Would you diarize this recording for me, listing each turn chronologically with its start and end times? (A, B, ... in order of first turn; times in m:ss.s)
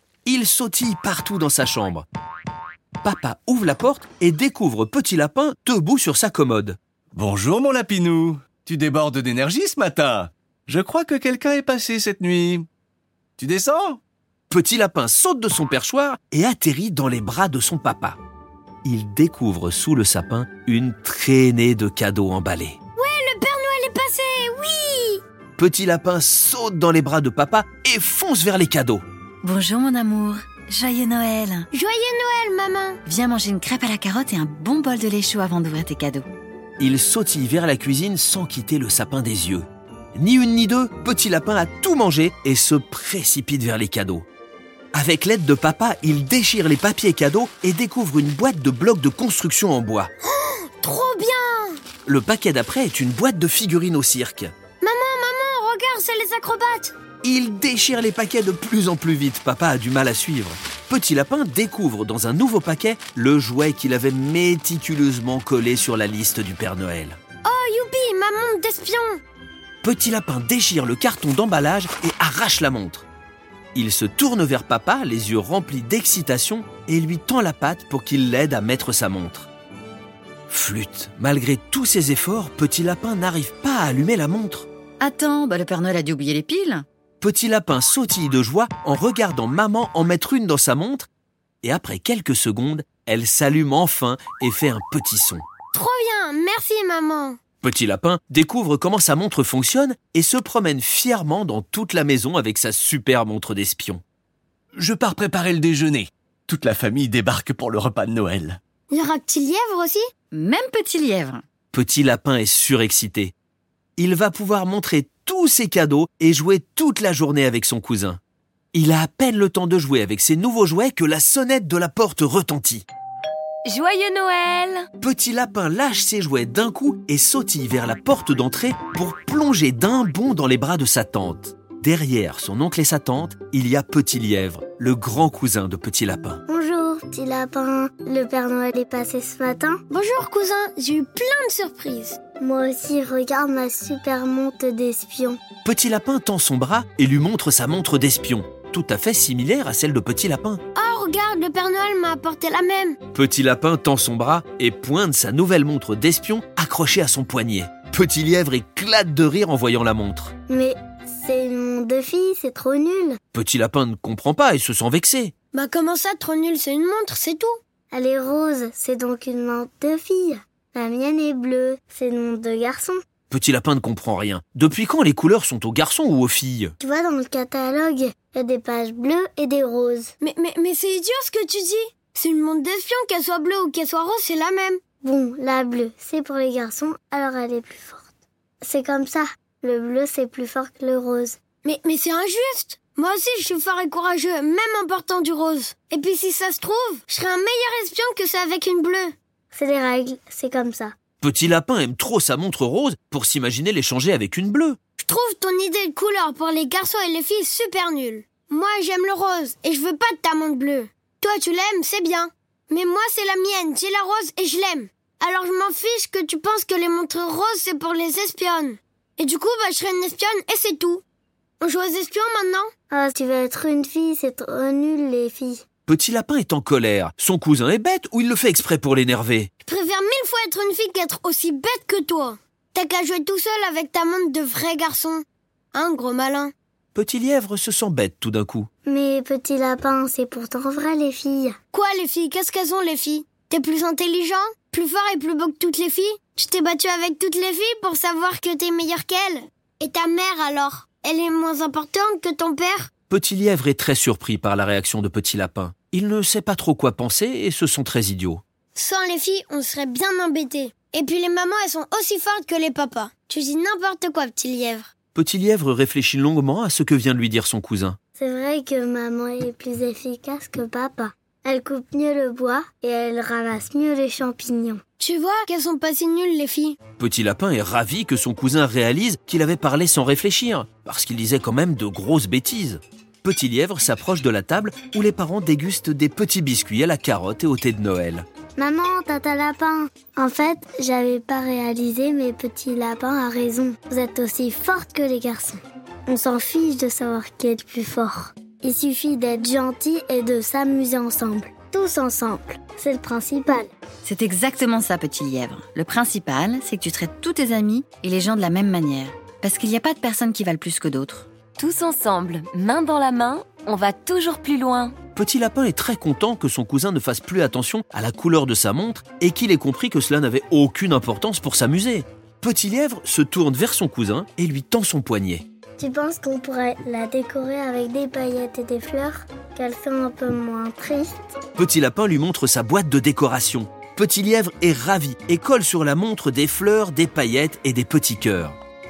0:00.2-0:02.0 A
0:03.0-0:06.8 A
0:07.1-0:12.7 B
0:13.4-0:14.0 B
0:14.5-0:18.2 A
0:18.8-0:22.8 A
0:23.0-0:25.2 C
0:25.6-0:29.0 A
0:29.4-0:31.7 D
0:31.7-0:33.0 C
0:33.0-0:36.3 D
0:36.8-0:44.2 A
0:44.9-0:50.1 A
0:50.3-0:51.8 C
0:52.0-0:54.5 A
0:54.8-0:56.9 C
0:57.2-1:07.2 A
1:07.4-1:09.2 C
1:09.8-1:13.0 A
1:13.7-1:19.5 A
1:20.5-1:24.7 A
1:25.0-1:26.8 D
1:27.2-1:31.1 A
1:31.6-1:35.4 A
1:35.7-1:37.4 C
1:37.6-1:44.0 A
1:44.7-1:48.6 B
1:48.9-1:50.0 C
1:50.3-1:51.4 D
1:51.7-1:53.3 A
1:54.0-1:58.2 A
1:58.7-2:02.8 A
2:03.6-2:04.9 E
2:05.0-2:16.4 A
2:16.5-2:19.8 F
2:19.9-2:22.2 C
2:22.4-2:25.4 F
2:25.6-2:30.6 A
2:30.7-2:33.0 C
2:33.1-2:40.3 A
2:40.5-2:43.2 F
2:43.3-2:45.3 A
2:45.5-2:47.6 C
2:47.9-2:53.0 F
2:53.3-2:56.7 A
2:56.8-3:00.1 F
3:00.2-3:04.8 C
3:05.0-3:11.4 F
3:11.6-3:19.1 C
3:19.5-3:20.9 F
3:21.2-3:24.8 A
3:25.0-3:41.0 C
3:41.6-3:42.7 C
3:42.9-3:45.6 F
3:45.9-3:49.5 A
3:49.6-3:56.5 C
3:56.9-3:58.7 A
3:58.8-4:01.6 F
4:01.7-4:12.9 C
4:13.1-4:18.4 A
4:18.7-4:24.9 C
4:25.1-4:28.0 A
4:28.2-4:34.8 F
4:35.0-4:36.8 C
4:37.0-4:48.2 A
4:48.6-5:03.7 F
5:04.0-5:11.3 D
5:11.6-5:15.0 E
5:15.1-5:25.4 A
5:25.8-5:31.2 F
5:31.6-5:38.6 A